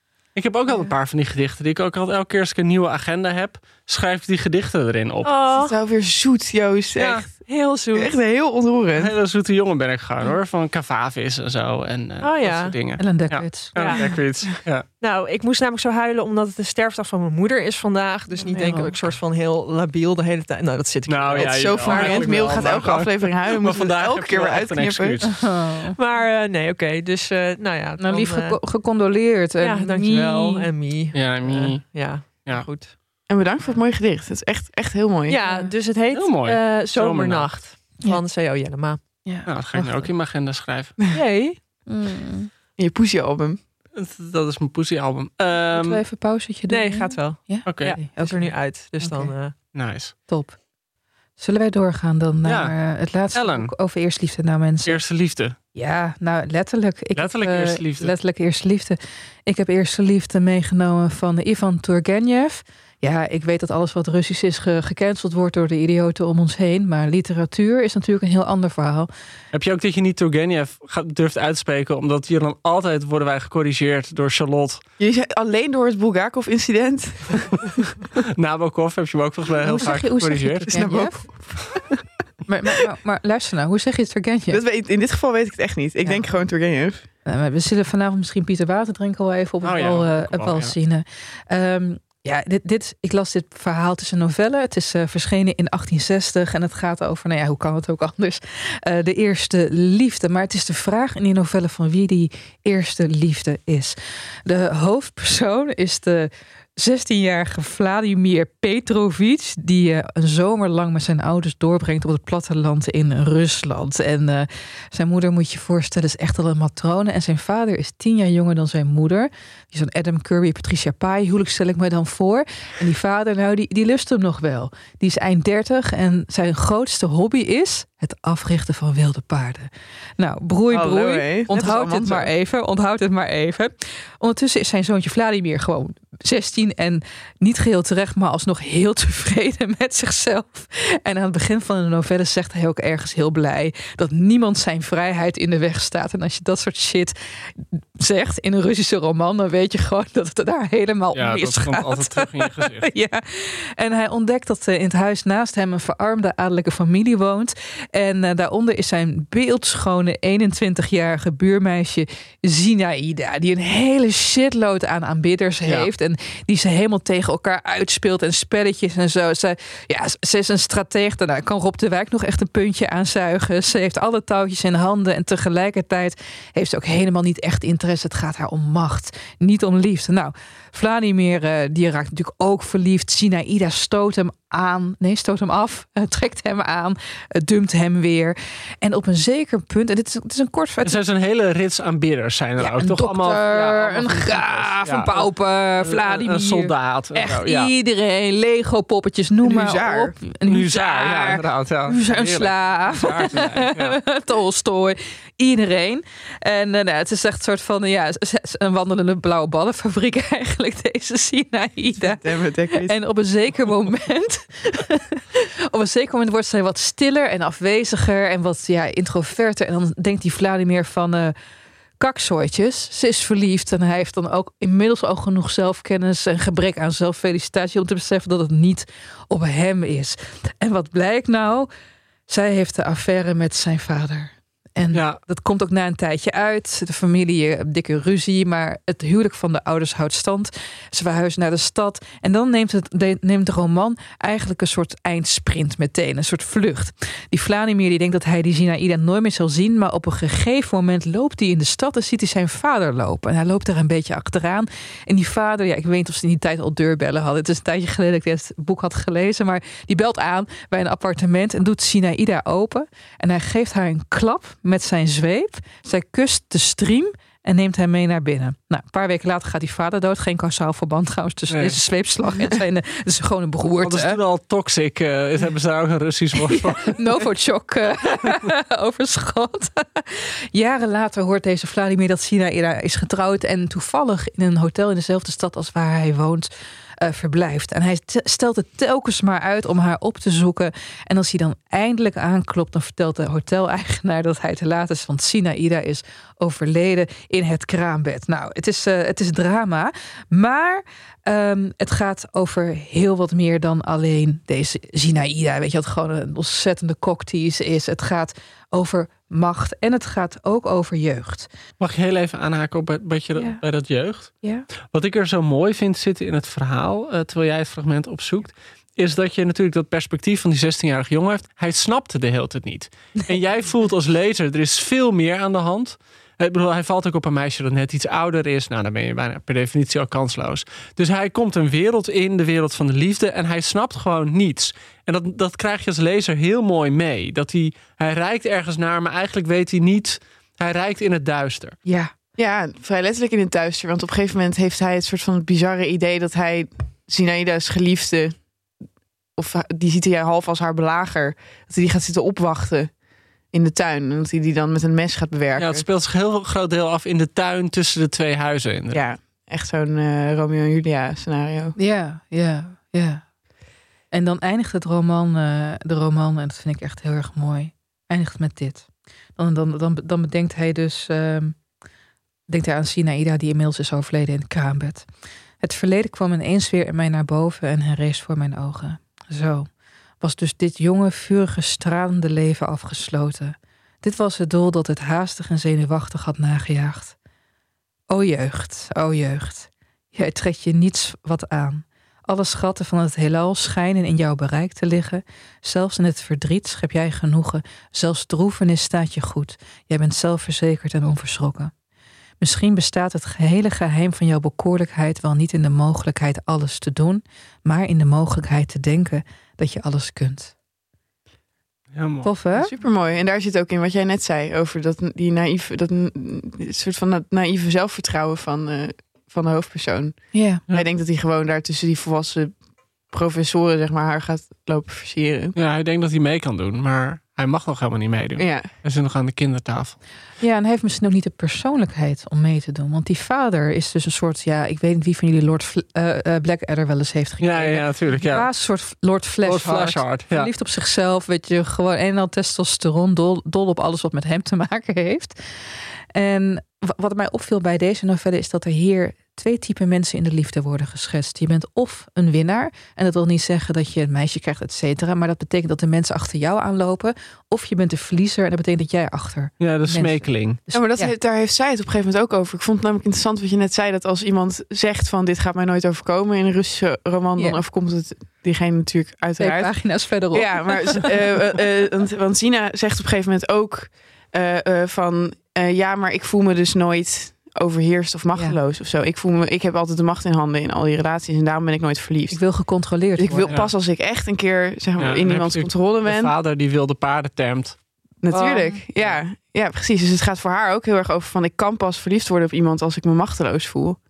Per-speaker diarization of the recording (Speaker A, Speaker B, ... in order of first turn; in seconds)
Speaker A: 0.3-5.3, 7.0-7.3, 8.9-14.8, 21.1-25.4, 31.1-32.7, 36.1-37.6, 39.5-41.0, 43.9-46.0, 47.6-48.0, 49.7-50.1, 52.4-52.7, 53.3-53.7, 54.9-55.5, 57.1-58.1, 69.5-74.8, 78.4-80.7, 89.6-90.7, 151.1-152.9, 165.6-165.9, 190.8-195.3, 195.8-197.7, 200.4-204.0, 234.9-235.2, 271.5-271.8, 273.8-277.0, 311.8-341.8, 355.6-359.0, 411.9-412.3, 425.6-430.0, 437.4-438.5, 439.4-440.5, 459.6-460.6, 485.0-487.8
Speaker B: 5.2-5.7, 7.5-8.1, 12.2-12.8, 13.8-22.8, 25.9-28.6, 29.6-32.9, 35.3-39.0, 41.1-41.6, 46.7-49.5
Speaker C: 5.5-9.1, 21.4-25.2, 33.3-35.4, 42.8-43.6, 75.0-78.1, 80.7-82.0, 84.5-87.0, 130.7-132.3, 199.4-200.2, 212.0-212.9, 342.4-348.4, 349.4-352.9, 353.5-355.9, 358.9-361.8, 412.5-422.6, 423.1-425.5, 428.4-428.7, 460.7-482.4, 483.1-486.3, 488.2-494.0
Speaker D: 13.0-13.7, 18.5-18.9, 25.2-25.9, 28.0-30.7, 35.4-35.7, 39.2-40.1, 41.9-42.5, 45.7-49.3, 50.3-50.6, 51.4-55.0, 55.7-69.1, 79.7-81.2, 82.5-84.6, 87.2-191.0, 192.6-212.2, 212.8-221.3, 222.0-231.7, 232.3-274.2, 276.5-286.5, 287.0-311.5, 341.8-342.1, 361.8-363.2, 364.1-371.6, 372.5-375.1, 375.6-379.7, 380.2-387.1, 388.1-401.7, 402.4-410.5, 412.2-412.7, 420.3-420.6, 430.4-445.3, 446.1-461.1, 469.4-471.1, 482.3-483.6, 488.3-488.8